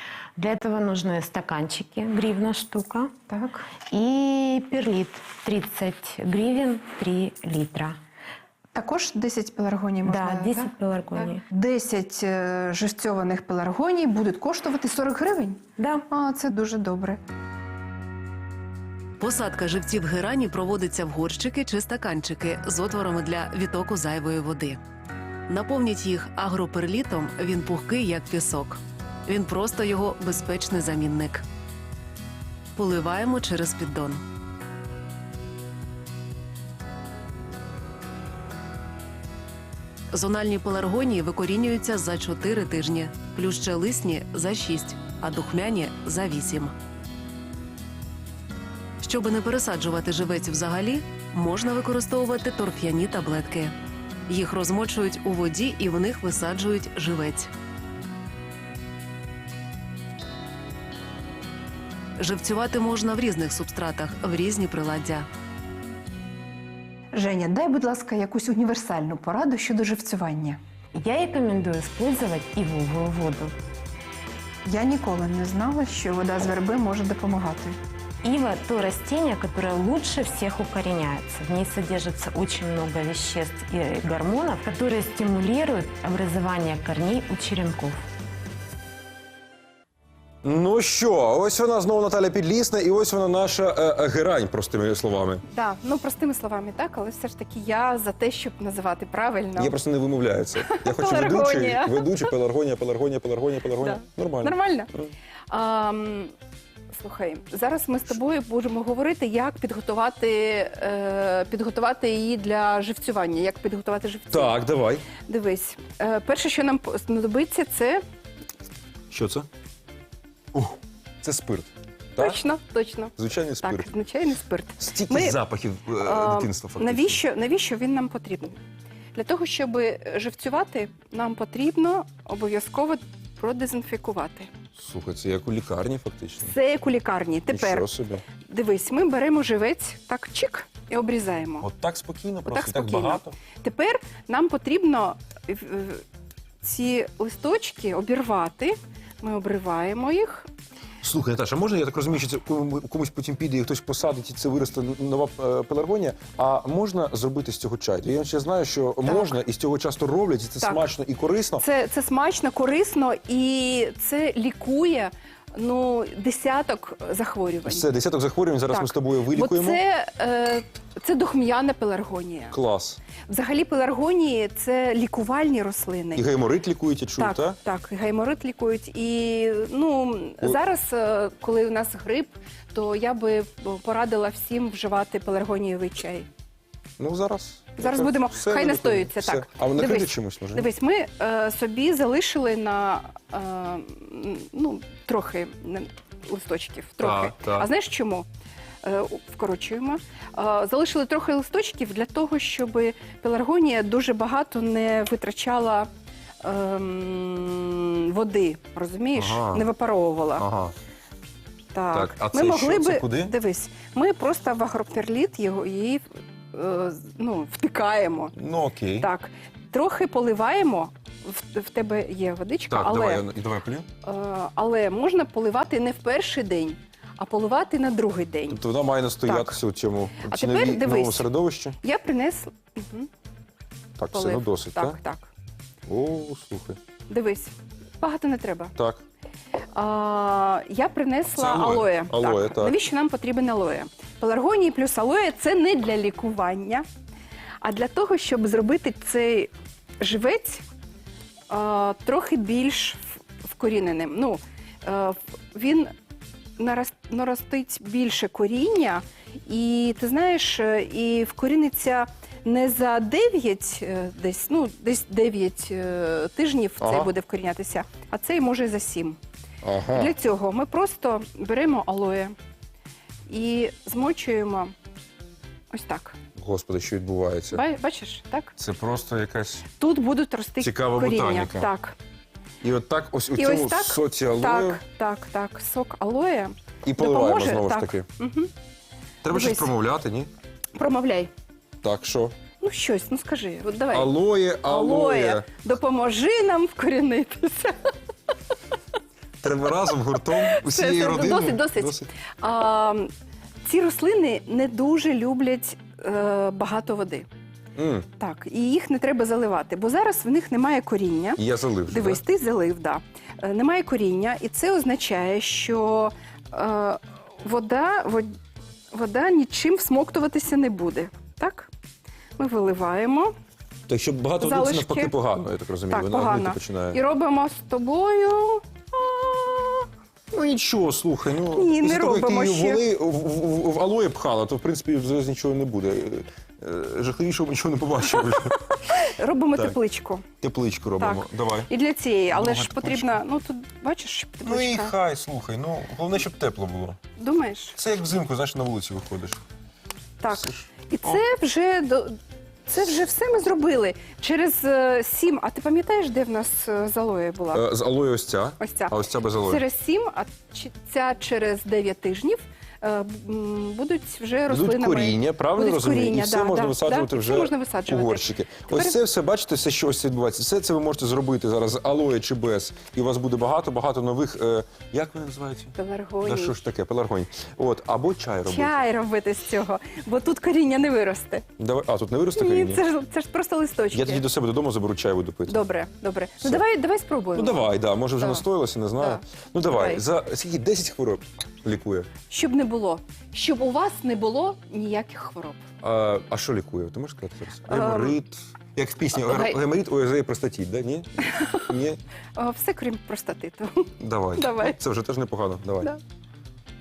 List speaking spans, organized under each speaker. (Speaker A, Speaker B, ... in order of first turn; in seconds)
Speaker A: 0.3-8.0, 10.0-11.4, 15.8-16.1, 70.9-73.5, 78.2-88.0
Speaker B: 8.7-15.6, 16.1-17.2, 67.1-70.6, 74.6-77.8, 95.5-99.8, 100.6-102.3, 103.7-104.9, 105.5-106.3, 106.9-114.6, 115.1-118.0, 122.2-125.4, 125.9-128.6, 129.1-134.5, 136.4-141.7, 142.5-146.0, 146.6-150.5, 159.0-159.4, 160.6-160.9, 161.6-167.9, 168.7-172.6, 173.1-176.3, 177.2-186.3, 187.8-198.2, 198.8-205.9, 206.4-210.4, 211.7-218.3, 219.0-223.3, 224.0-228.6, 229.2-229.6, 230.2-231.3, 231.8-233.1, 234.1-235.3, 237.1-238.7, 239.7-246.8, 247.6-250.6, 251.5-255.9, 256.6-269.2, 269.9-272.3, 273.3-274.7, 275.7-276.1, 277.5-278.6, 279.7-281.9, 283.4-288.5, 289.3-289.7, 290.7-291.3, 292.5-297.9, 300.2-303.1, 303.6-307.3, 308.2-318.4, 318.9-321.7, 322.4-323.3, 324.4-325.2, 325.9-329.9, 331.4-332.8, 338.2-340.3, 341.0-344.9, 347.1-347.8, 350.2-357.6, 358.6-369.0, 375.7-376.6, 378.4-381.4, 382.3-384.2, 385.5-388.4, 389.0-390.0, 392.3-395.6, 397.6-398.2, 399.3-399.6, 401.4-401.6, 402.4-404.8
Speaker C: 19.2-24.8, 25.5-31.4, 32.7-34.2, 40.1-46.8, 49.0-53.7, 54.3-57.5, 62.2-65.3
Speaker D: 90.4-95.4, 99.5-105.1, 114.3-115.1, 119.1-119.5, 120.5-122.4, 123.2-123.9, 124.8-127.2, 134.7-136.5, 137.5-138.3, 141.6-143.4, 151.0-161.6, 167.6-169.8, 172.5-173.0, 176.1-177.6, 187.0-190.7, 197.0-197.7, 209.1-209.7, 210.3-210.7, 211.9-213.3, 218.3-219.1, 222.7-223.9, 228.5-231.8, 234.0-235.0, 235.9-236.8, 238.8-239.0, 241.3-242.8, 266.8-267.1, 269.6-270.1, 276.4-277.6, 278.6-279.7, 280.6-281.7, 282.6-284.8, 286.8-288.1, 289.2-290.3, 291.8-292.4, 293.9-295.6, 299.4-302.1, 307.8-308.1, 311.4-312.2, 323.9-327.0, 330.3-338.7, 340.4-341.7, 342.3-343.2, 344.4-347.0, 347.8-349.4, 350.3-351.2, 357.5-359.6, 364.5-378.8, 381.6-382.8, 383.9-385.6, 386.4-386.6, 387.3-392.1, 395.8-402.0, 404.0-405.9